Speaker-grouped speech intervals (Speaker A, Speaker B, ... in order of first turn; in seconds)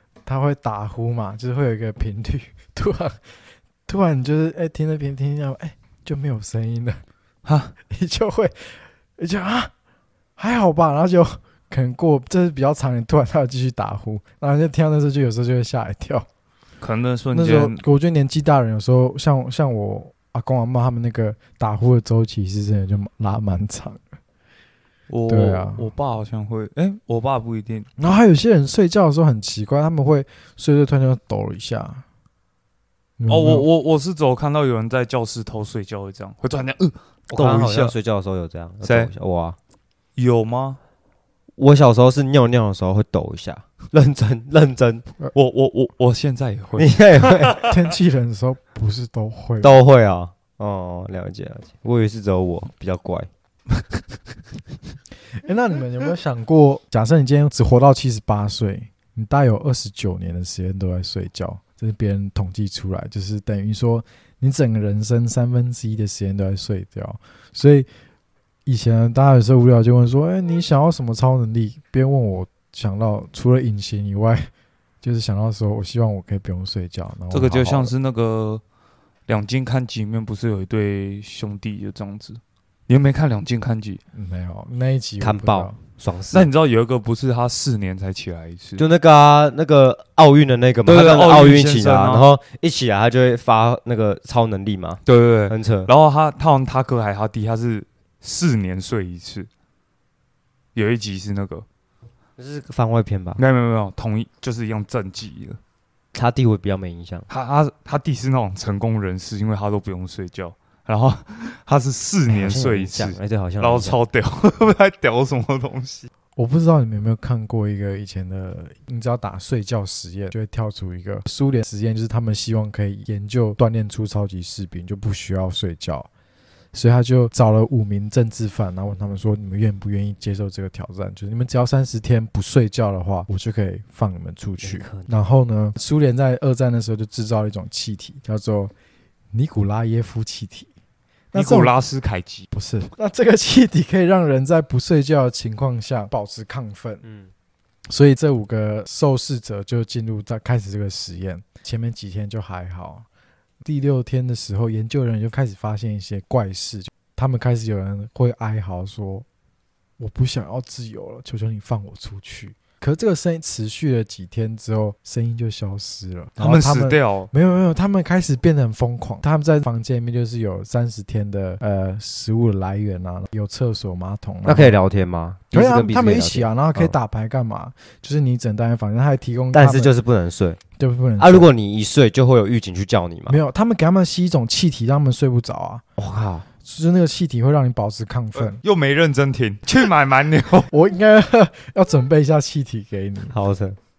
Speaker A: 0.2-3.2, 3.9-7.0, 7.9-9.7, 10.4-16.2, 17.3-24.0, 25.3-25.9, 28.0-32.0, 33.2-33.7, 47.6-49.8, 55.4-67.9, 68.7-74.5, 75.0-77.9, 84.1-85.8, 116.3-126.1, 126.7-138.7, 139.3-140.7, 141.3-141.7, 142.5-147.0, 147.9-153.1, 153.6-159.2, 160.0-174.8, 175.5-179.9, 180.8-181.5, 183.3-185.8, 186.6-188.6, 190.7-193.3
Speaker B: 7.4-7.7, 16.8-17.8, 25.1-27.9, 33.3-37.9, 38.8-39.1, 40.1-40.8, 45.3-47.7, 77.3-78.6, 79.3-84.0, 86.3-88.8, 90.8-92.3, 95.0-99.5, 100.7-101.7, 103.4-105.6, 107.3-116.1, 141.3-142.5, 166.4-167.3, 188.3-190.7
Speaker C: 37.3-39.6, 41.6-45.0, 46.8-47.6, 49.6-53.3, 85.2-86.5, 88.8-95.9, 102.4-103.4, 106.1-107.3, 112.3-114.0, 134.6-135.1, 147.0-147.3, 174.4-176.9, 179.5-180.6, 181.2-183.4, 186.0-186.5, 193.3-193.8